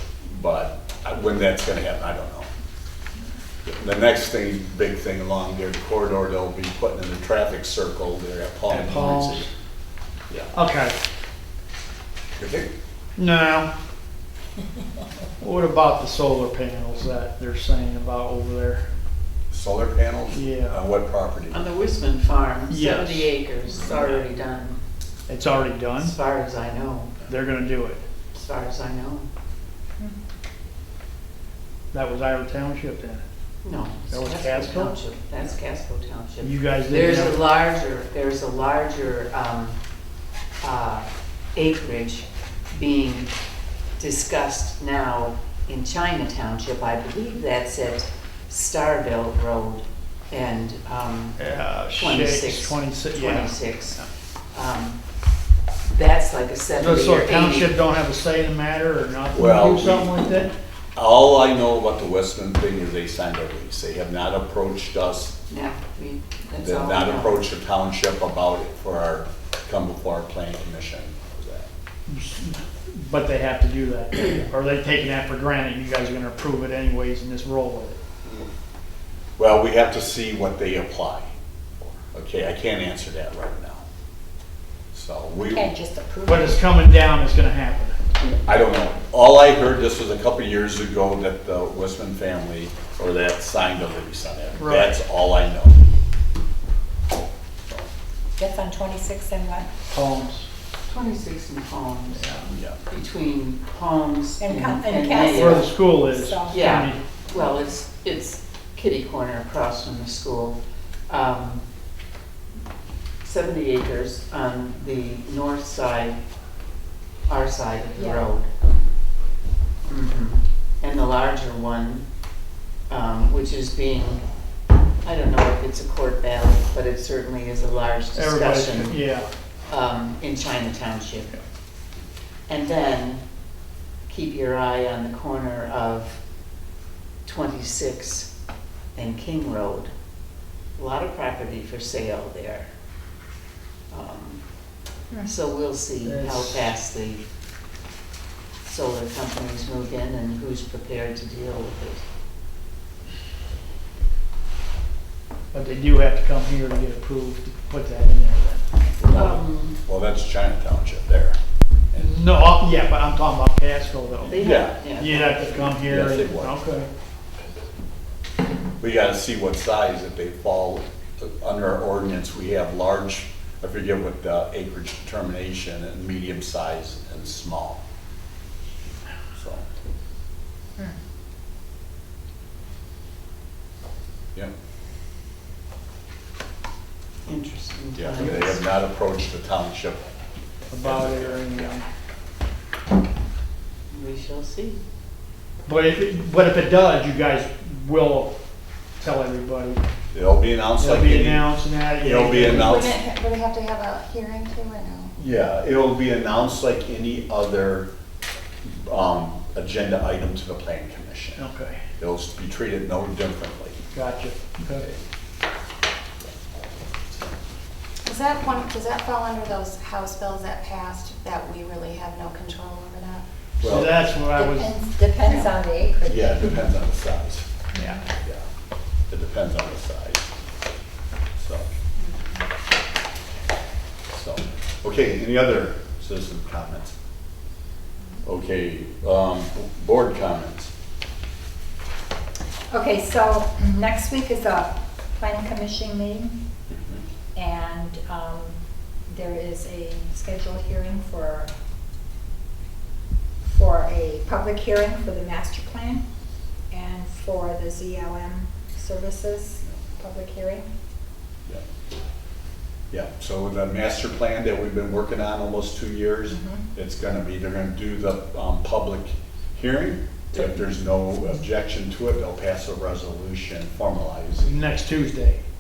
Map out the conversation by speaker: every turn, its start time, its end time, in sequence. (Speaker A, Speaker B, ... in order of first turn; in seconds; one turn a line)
Speaker A: 0.2-2.5
Speaker A: 3.6-9.5
Speaker B: 8.7-9.5
Speaker B: 10.5-10.9
Speaker A: 12.4-12.7
Speaker B: 13.2-13.7
Speaker B: 15.4-18.9
Speaker A: 19.5-21.6
Speaker B: 20.3-20.8
Speaker C: 21.5-24.8
Speaker B: 22.7-23.3
Speaker B: 25.3-26.1
Speaker C: 25.9-27.2
Speaker B: 27.3-28.0
Speaker C: 28.3-29.3
Speaker B: 31.9-33.2
Speaker C: 33.6-39.8
Speaker B: 34.1-35.0
Speaker B: 36.4-37.4
Speaker C: 40.6-43.3
Speaker C: 44.0-51.4
Speaker B: 51.4-54.1
Speaker C: 51.9-54.0
Speaker C: 54.5-55.0
Speaker C: 55.9-57.8
Speaker B: 56.8-60.5
Speaker A: 59.3-65.3
Speaker C: 65.5-67.5
Speaker A: 66.6-71.7
Speaker B: 72.1-78.0
Speaker A: 79.4-83.8
Speaker A: 84.9-85.7
Speaker D: 85.5-86.6
Speaker B: 86.2-88.0
Speaker A: 88.2-95.8
Speaker B: 94.5-95.0
Speaker D: 98.4-99.7
Speaker B: 99.9-100.5
Speaker C: 100.9-102.2
Speaker B: 102.1-102.5
Speaker A: 102.5-102.8
Speaker C: 102.9-105.8
Speaker D: 104.4-106.8
Speaker B: 105.2-107.0
Speaker C: 106.5-110.6
Speaker C: 111.1-111.6
Speaker C: 113.2-116.2
Speaker C: 117.3-118.5
Speaker D: 118.0-118.2
Speaker C: 119.8-122.0
Speaker C: 122.9-124.2
Speaker C: 125.0-129.1
Speaker B: 128.1-129.3
Speaker C: 129.7-131.3
Speaker C: 132.5-133.2
Speaker C: 134.1-136.2
Speaker C: 137.2-138.3
Speaker C: 138.9-139.9
Speaker C: 140.8-142.7
Speaker C: 143.9-144.4
Speaker C: 145.2-147.2
Speaker B: 146.0-146.7
Speaker C: 148.6-152.0
Speaker B: 155.5-158.7
Speaker A: 159.0-161.4
Speaker C: 159.1-159.8
Speaker B: 162.0-166.9
Speaker A: 164.2-164.8
Speaker C: 164.3-165.8
Speaker A: 165.7-166.6
Speaker A: 168.8-177.8
Speaker A: 179.4-179.6
Speaker C: 187.2-188.5
Speaker A: 187.9-190.1
Speaker B: 188.2-188.6
Speaker B: 190.7-191.8
Speaker A: 190.8-191.8
Speaker C: 193.9-194.8
Speaker B: 195.7-198.3
Speaker B: 199.0-199.8
Speaker A: 200.1-203.0
Speaker B: 200.8-202.8
Speaker E: 202.6-205.1
Speaker A: 205.2-207.9
Speaker A: 208.6-211.4
Speaker B: 211.3-211.8
Speaker A: 212.0-213.8
Speaker B: 213.9-214.8
Speaker E: 218.0-223.2
Speaker A: 223.6-224.0
Speaker B: 223.6-224.7
Speaker D: 224.3-226.5
Speaker A: 226.0-227.4
Speaker B: 227.8-228.0
Speaker A: 229.1-230.2
Speaker A: 231.4-231.7
Speaker A: 234.1-236.9
Speaker A: 238.2-240.7
Speaker D: 242.7-246.3
Speaker D: 247.3-251.5
Speaker D: 253.4-256.0
Speaker D: 256.7-260.6
Speaker A: 262.9-274.6
Speaker D: 266.3-266.6
Speaker B: 274.4-275.4